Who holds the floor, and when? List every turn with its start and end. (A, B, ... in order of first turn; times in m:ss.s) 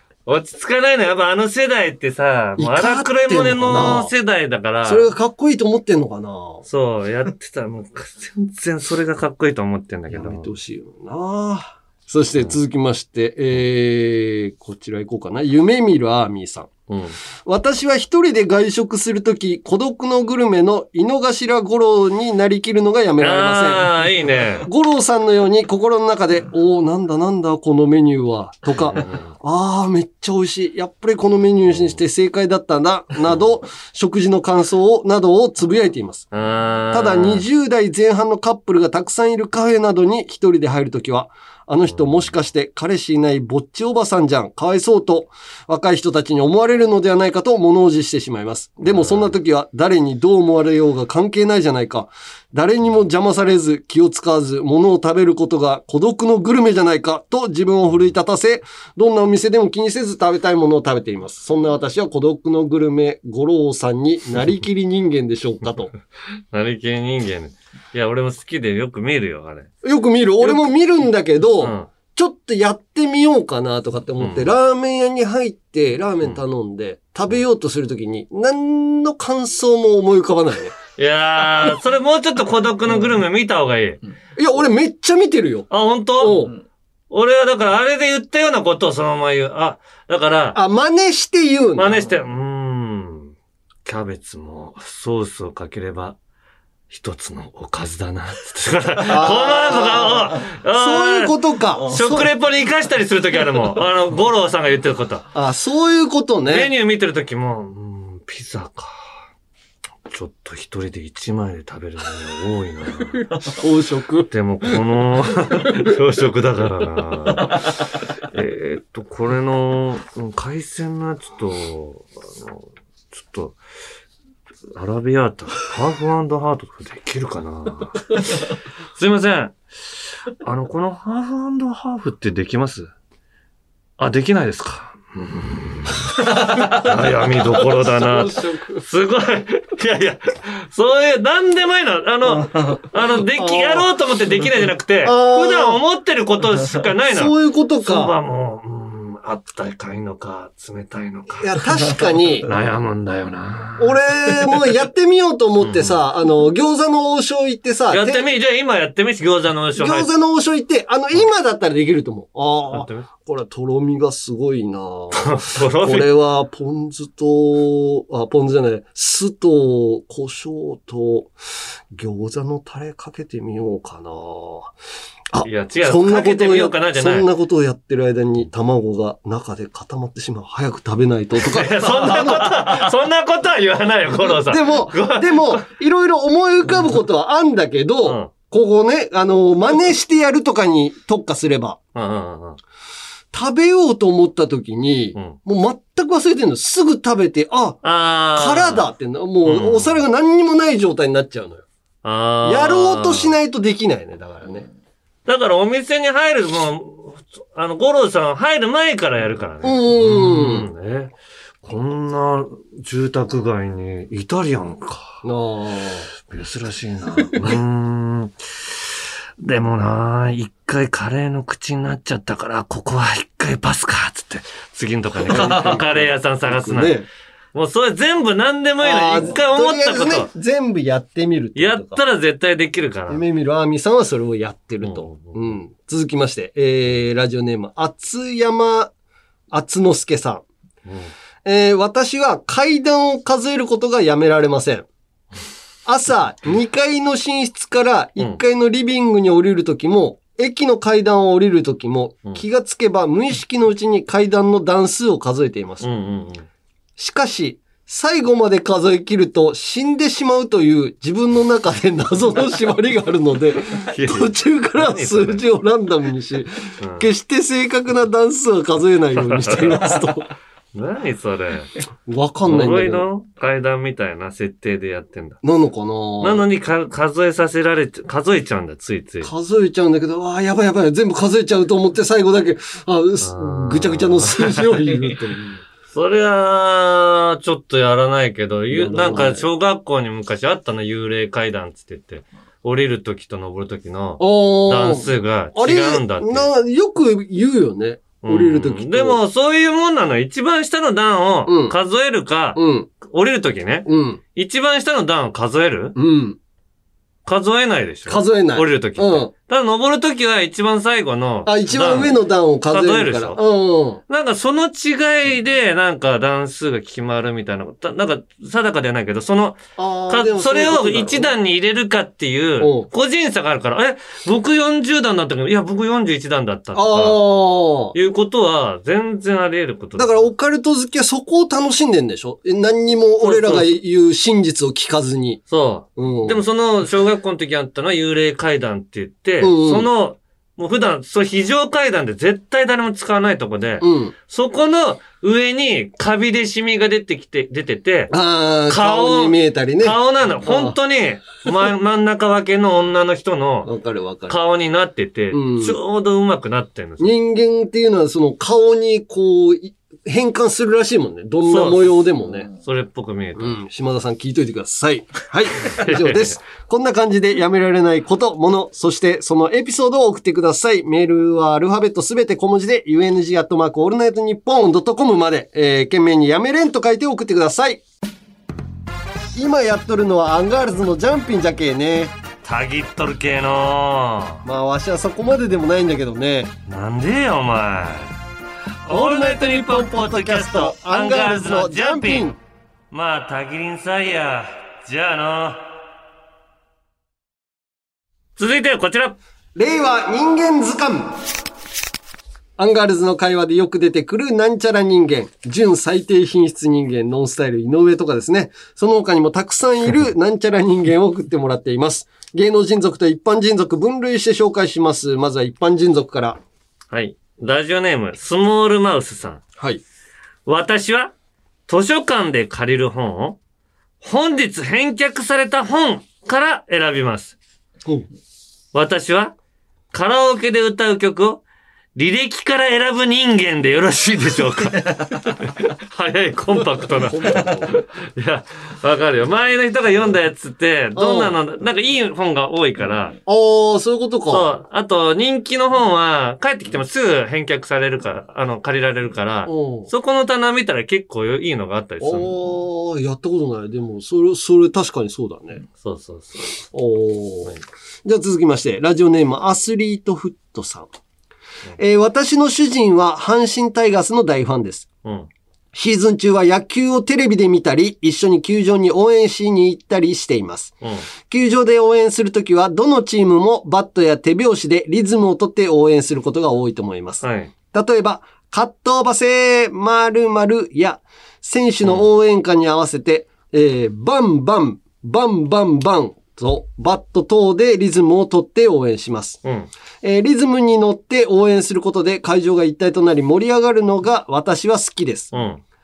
0:00.2-0:05.1 A
0:02.6-0:04.1 B
0:04.8-0:06.6 B
0:06.6-0:10.5 A
0:10.1-0:16.7 B
0:16.9-0:17.2 A
0:17.4-0:23.9 B
0:23.2-0:24.7 A
0:24.6-0:36.3 B
0:28.9-0:29.2 A
0:36.3-0:37.4 A
0:36.9-1:05.9 B
0:48.8-0:49.3 A
1:06.5-1:09.7 A
1:09.8-1:20.8 B
1:11.6-1:11.9 A
1:14.2-1:14.5 A
1:21.0-1:24.0 A
1:24.4-1:26.5 B
1:25.7-1:26.5 A
1:27.1-1:30.6 A
1:30.5-1:32.0 B
1:31.8-1:33.3 A
1:33.8-1:36.2 A
1:36.9-1:45.3 A
1:39.0-1:42.3 B
1:45.3-1:46.7 B
1:46.5-1:49.0 A
1:50.1-1:53.2 A
1:53.4-1:54.3 B
1:54.3-1:57.7 A
1:58.2-2:03.6 A
2:04.7-2:09.6 A
2:10.4-2:12.9 A
2:14.0-2:31.6 A
2:16.8-2:18.8 B
2:23.3-2:23.9 B
2:25.0-2:25.8 B
2:27.0-2:28.1 B
2:31.4-2:32.5 B
2:32.4-2:34.6 A
2:33.8-2:38.3 B
2:35.6-2:36.0 A
2:37.9-2:40.1 A
2:39.8-2:51.3 B
2:42.7-2:43.1 A
2:45.1-2:46.1 A
2:51.9-2:54.7 B
2:55.3-3:02.9 B
2:55.4-2:57.3 A
3:01.4-3:05.6 A
3:04.1-3:11.8 B
3:08.0-3:08.3 A
3:11.9-3:12.6 A
3:13.3-3:17.8 B
3:17.8-3:18.9 A
3:18.3-3:21.6 B
3:19.4-3:20.0 A
3:22.0-3:23.3 A
3:22.4-3:24.7 B
3:25.2-3:35.2 A
3:29.6-3:30.7 B
3:35.2-3:36.1 B
3:36.3-3:38.7 A
3:39.4-3:47.0 A
3:45.2-3:47.1 B
3:47.5-3:50.3 A
3:48.8-3:52.0 B
3:51.6-3:53.2 A
3:53.1-3:58.9 B
3:54.8-3:55.5 A
3:59.5-4:00.4 B
4:00.8-4:01.1 A
4:01.4-4:04.9 B
4:05.8-4:15.9 B
4:15.8-4:16.5 A
4:17.0-4:30.3 B
4:23.9-4:25.4 A
4:26.8-4:27.1 A
4:29.1-4:29.8 A
4:30.7-4:31.7 A
4:32.0-4:33.1 B
4:32.5-4:35.4 A
4:35.4-4:36.4 B
4:36.2-4:39.3 A
4:39.2-4:45.6 B
4:43.2-4:45.0 A
4:45.9-4:56.5 A
4:48.7-4:49.4 B
4:54.2-4:59.2 B
4:58.2-5:06.0 A
5:01.4-5:01.8 B
5:02.5-5:02.9 B
5:03.8-5:04.2 B
5:06.0-5:06.4 B
5:07.2-5:13.4 A
5:08.1-5:09.3 B
5:11.4-5:14.0 B
5:14.1-5:27.2 A
5:19.8-5:21.3 B
5:22.6-5:22.9 B
5:26.7-5:27.9 B
5:27.9-5:30.3 A
5:29.9-5:35.4 B
5:33.2-5:33.7 A
5:35.5-5:48.1 A
5:36.0-5:36.4 B
5:39.4-5:39.9 B
5:43.8-5:44.1 B
5:48.1-5:50.8 B
5:48.7-5:53.7 A
5:53.6-5:54.4 B
5:54.3-5:57.1 A
5:55.3-5:55.8 B
5:57.0-6:02.5 B
6:01.4-6:02.0 A
6:02.6-6:03.6 A
6:03.4-6:17.8 B
6:05.6-6:06.4 A
6:19.3-6:22.1 B
6:22.4-6:24.4 A
6:24.4-6:26.5 B
6:26.7-6:28.2 A
6:28.8-6:32.3 A
6:28.9-6:32.4 B
6:32.9-6:35.6 A
6:38.4-6:39.2 A
6:39.5-6:41.2 B
6:42.6-6:56.4 B
6:56.9-6:59.4 A
6:59.6-6:59.8 B
7:00.4-7:01.1 A
7:01.7-7:03.4 A
7:04.0-7:07.3 A
7:08.7-7:09.3 A
7:09.9-7:11.4 A
7:11.9-7:23.2 A
7:17.0-7:17.8 B
7:20.9-7:21.4 B
7:23.2-7:24.5 B
7:24.3-7:32.4 A
7:29.5-7:29.9 B
7:32.0-7:35.6 B
7:35.8-7:36.6 A
7:36.7-7:40.9 B
7:41.8-7:44.9 B
7:45.7-7:50.8 B
7:51.3-8:09.4 B
7:57.2-7:57.5 A
8:09.4-8:09.7 A
8:10.0-8:15.3 B
8:15.3-8:15.6 A